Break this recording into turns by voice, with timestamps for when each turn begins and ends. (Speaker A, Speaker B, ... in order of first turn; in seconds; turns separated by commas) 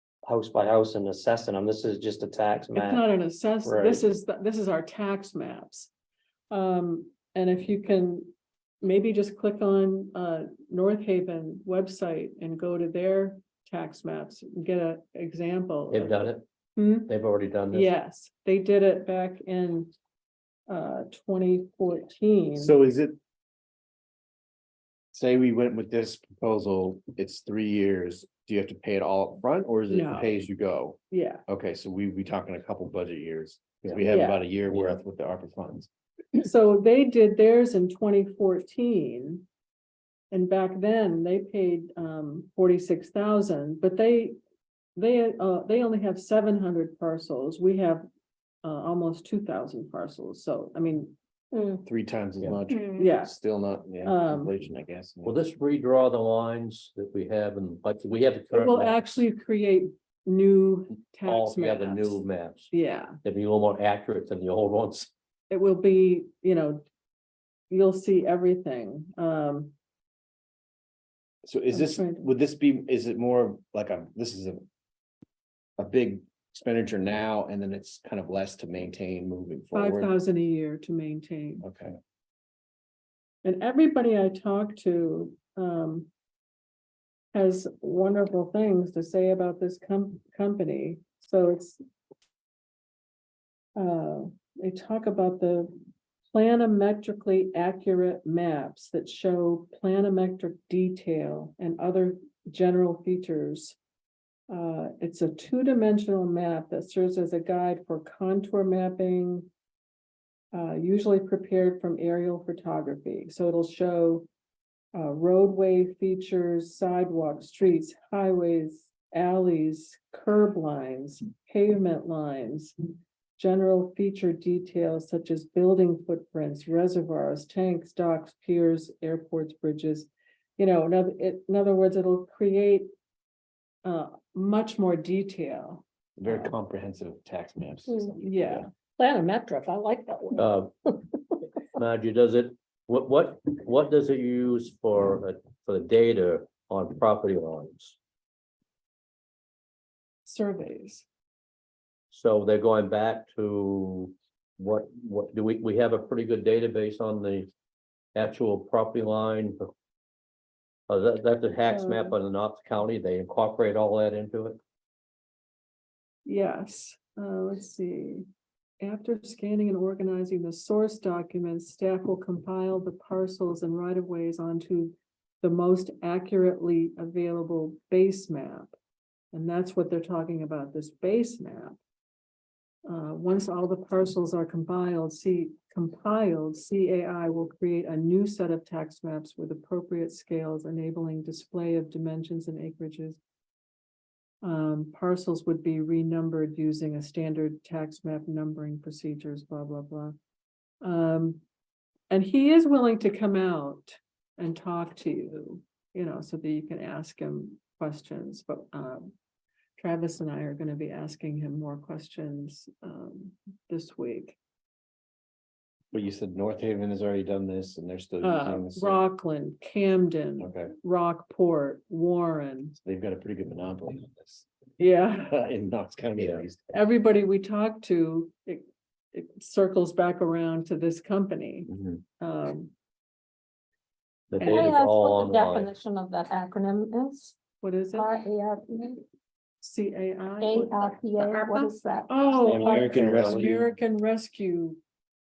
Speaker A: 0.2-3.0, Speaker B: 2.7-5.9, Speaker A: 3.6-4.0, Speaker B: 6.5-16.2, Speaker C: 15.9-16.4, Speaker B: 16.8-17.1, Speaker C: 17.1-17.9, Speaker B: 17.7-19.9, Speaker B: 20.7-22.8, Speaker D: 22.6-23.2, Speaker D: 25.1-35.9, Speaker B: 29.9-30.4, Speaker B: 31.1-31.4, Speaker B: 34.1-34.4, Speaker C: 34.7-35.0, Speaker B: 36.4-39.5, Speaker B: 40.3-44.4, Speaker B: 45.0-48.0, Speaker B: 48.6-51.2, Speaker E: 51.5-51.8, Speaker D: 51.9-55.4, Speaker E: 52.7-53.0, Speaker B: 53.0-53.4, Speaker B: 54.0-54.5, Speaker C: 55.2-59.0, Speaker B: 58.5-63.2, Speaker C: 61.2-62.7, Speaker C: 63.2-65.1, Speaker B: 65.5-66.8, Speaker B: 67.7-69.7, Speaker D: 71.4-74.6, Speaker B: 71.7-72.3, Speaker D: 75.8-80.1, Speaker B: 79.7-81.7, Speaker D: 81.6-82.0, Speaker B: 83.4-86.1, Speaker B: 87.3-91.8, Speaker B: 93.8-95.8, Speaker B: 96.3-103.8, Speaker B: 104.5-109.5, Speaker B: 110.5-114.3, Speaker B: 114.9-122.8, Speaker B: 123.4-132.9, Speaker B: 133.8-136.5, Speaker D: 136.2-138.7, Speaker E: 137.9-138.1, Speaker B: 138.2-138.7, Speaker E: 139.0-141.0, Speaker C: 140.4-140.7, Speaker C: 141.7-148.0, Speaker B: 150.2-151.1, Speaker C: 152.1-157.5, Speaker C: 158.2-159.7, Speaker C: 160.9-164.6, Speaker B: 161.7-162.2, Speaker B: 166.3-168.3, Speaker B: 168.8-178.7, Speaker B: 179.3-181.8, Speaker B: 182.9-193.2, Speaker B: 194.4-200.2, Speaker B: 200.8-201.4, Speaker B: 202.1-209.1, Speaker B: 209.8-214.4, Speaker D: 215.9-219.0, Speaker B: 218.2-222.8, Speaker D: 220.4-220.7, Speaker D: 222.8-224.5, Speaker B: 224.8-225.4, Speaker D: 225.3-226.6, Speaker C: 226.2-226.4, Speaker B: 226.7-232.7, Speaker D: 231.7-232.0, Speaker C: 234.3-235.7, Speaker E: 234.4-237.4, Speaker B: 237.6-238.2, Speaker E: 237.9-239.0, Speaker B: 239.6-244.8, Speaker E: 240.4-242.8, Speaker A: 242.4-243.5, Speaker D: 242.6-243.7